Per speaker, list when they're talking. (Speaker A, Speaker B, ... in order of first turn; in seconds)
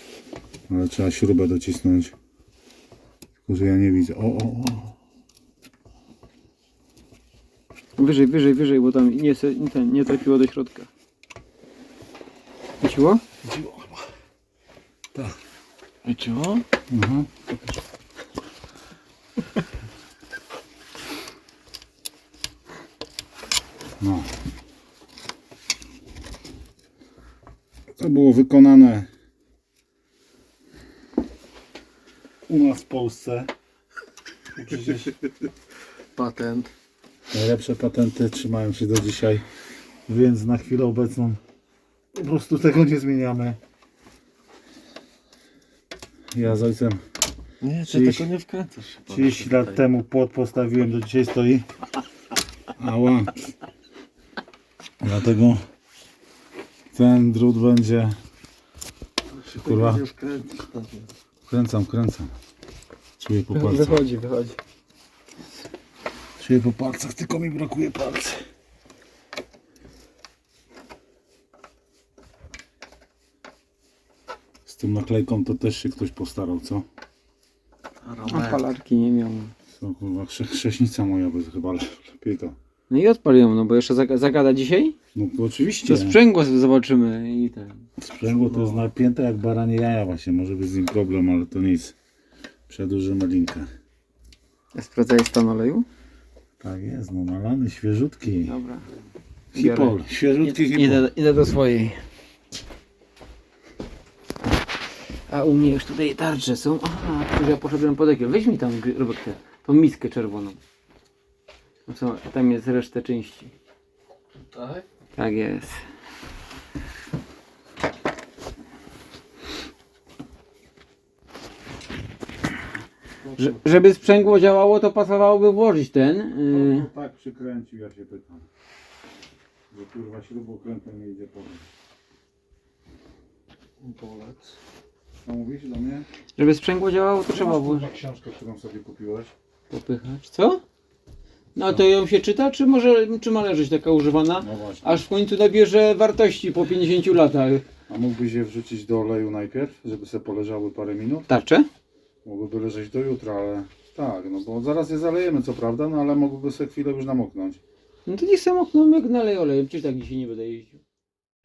Speaker A: 0.7-2.1, 3.5-4.9, 16.9-17.3, 24.0-24.3, 28.0-29.1, 32.5-33.5, 34.6-35.1, 37.3-39.4, 40.1-41.4, 42.1-43.6, 46.3-47.0, 47.8-48.3, 49.1-51.6, 52.8-53.5, 55.0-55.6, 56.9-58.2, 59.5-60.0, 61.5-62.3, 63.2-64.0, 66.4-68.4, 74.7-76.8, 79.7-82.5, 85.1-86.2, 88.0-92.0, 92.7-93.7, 96.6-98.5, 99.5-101.1, 126.5-128.4, 129.7-131.7, 135.2-136.1, 137.3-139.3, 144.4-145.0, 147.9-151.3, 152.2-157.6
Speaker B: 8.0-10.9, 12.8-13.2, 63.5-64.6, 78.3-79.5, 82.9-84.9, 85.8-87.8, 94.7-95.8, 98.4-98.8, 99.5-102.0, 105.3-110.6, 111.8-113.5, 115.2-115.8, 123.3-126.9, 136.3-137.9, 139.7-140.6, 141.6-147.6, 151.3-151.7, 158.1-160.8
Speaker C: 13.4-14.0, 16.0-16.6, 36.1-36.7, 47.6-49.8, 59.3-61.1, 78.0-78.7, 88.2-88.9, 114.5-114.8, 133.8-134.5